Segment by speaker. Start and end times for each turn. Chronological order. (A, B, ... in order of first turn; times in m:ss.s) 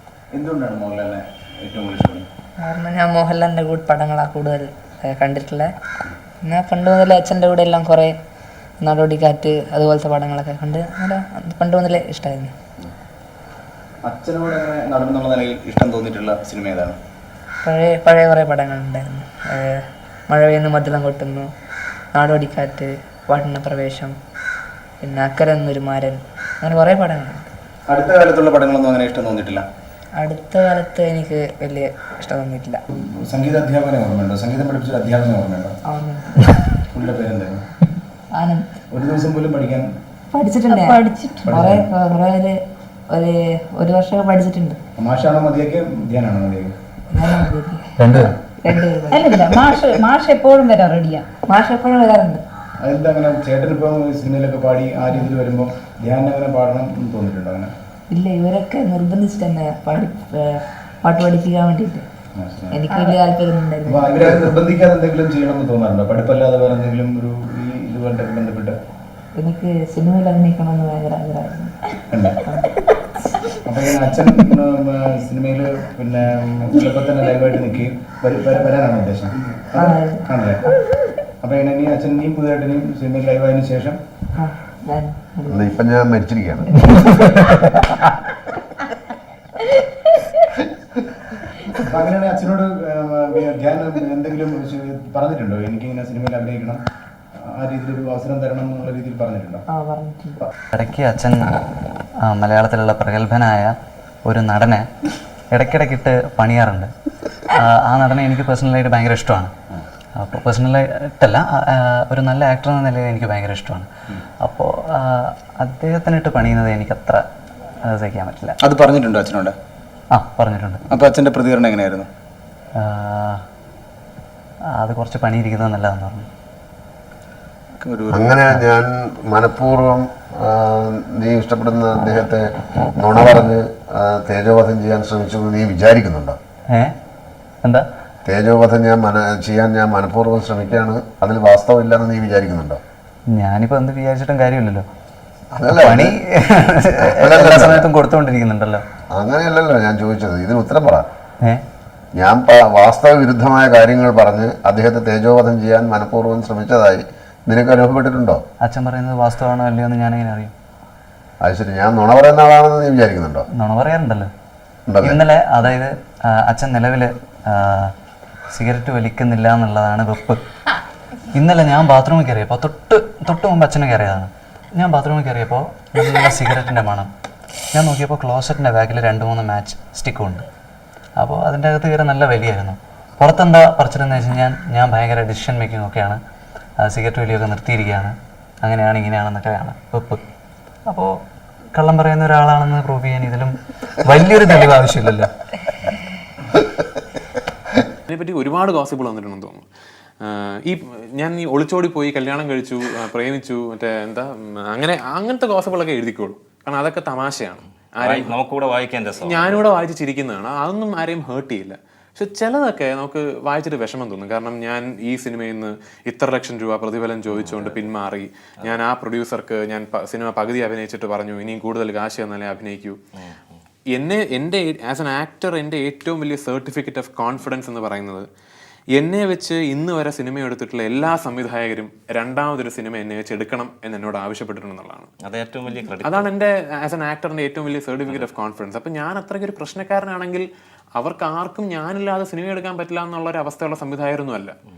0:00.3-0:02.2 A
0:02.6-0:05.7 B
0:06.4-0:08.1 B
0:08.8-0:12.5 B
0:14.0-0:17.0 A
0:17.6-0:21.5 B
0:22.1-0:24.2 B
0:25.0-0:27.4 B
0:27.9-0:29.6 A
0:30.2-0:32.8 B
0:32.9-0:35.8 A
0:35.8-0:36.6 B
0:36.9-0:37.6 A
0:38.3-0:38.7 B
0:38.9-0:39.9 A
0:40.3-0:42.6 B
0:40.7-0:41.4 C
0:41.4-0:41.9 A
0:43.1-0:44.8 B
0:45.0-0:46.8 A
0:47.1-0:48.1 B
0:48.0-0:48.3 D
0:48.6-0:49.3 B
0:49.1-0:51.2 C
0:51.5-0:52.4 B
0:52.8-0:57.7 A
0:58.1-1:02.0 B
1:02.4-1:02.8 A
1:02.7-1:04.1 B
1:03.8-1:08.8 A
1:09.4-1:12.7 B
1:12.1-1:12.4 A
1:13.6-1:20.7 A
1:19.8-1:20.3 B
1:21.4-1:24.0 A
1:24.4-1:25.7 B
1:25.5-1:26.7 E
1:26.7-1:27.6 B
1:31.7-1:36.8 A
1:37.5-1:39.6 A
1:39.7-1:40.4 B
1:40.7-1:41.6 D
1:42.2-1:44.8 D
1:45.5-1:46.9 D
1:47.5-1:49.5 D
1:50.2-1:53.9 D
1:54.4-1:57.2 D
1:57.8-1:58.6 D
1:58.6-1:59.5 A
2:00.1-2:00.8 D
2:00.9-2:02.1 A
2:02.8-2:03.4 D
2:04.8-2:06.3 D
2:07.8-2:08.3 A
2:08.1-2:16.4 E
2:18.2-2:22.8 E
2:23.3-2:24.9 D
2:25.6-2:26.2 E
2:25.7-2:28.8 D
2:27.0-2:27.9 E
2:29.1-2:31.1 E
2:32.2-2:38.4 E
2:38.6-2:40.5 D
2:41.4-2:43.4 E
2:43.5-2:44.3 D
2:44.9-2:45.2 E
2:45.0-2:47.9 D
2:48.5-2:50.4 D
2:51.3-2:57.1 D
2:57.7-3:00.4 D
3:01.2-3:06.2 D
3:06.8-3:10.2 D
3:11.8-3:15.3 D
3:18.1-3:19.6 F
3:20.2-3:28.4 F
3:28.0-3:29.6 G
3:29.2-3:43.0 F
3:37.3-3:37.8 G
3:43.2-3:43.6 G
3:43.9-3:48.3 F
3:49.0-3:55.1 F
3:55.2-3:56.3 G
3:56.0-4:04.5 F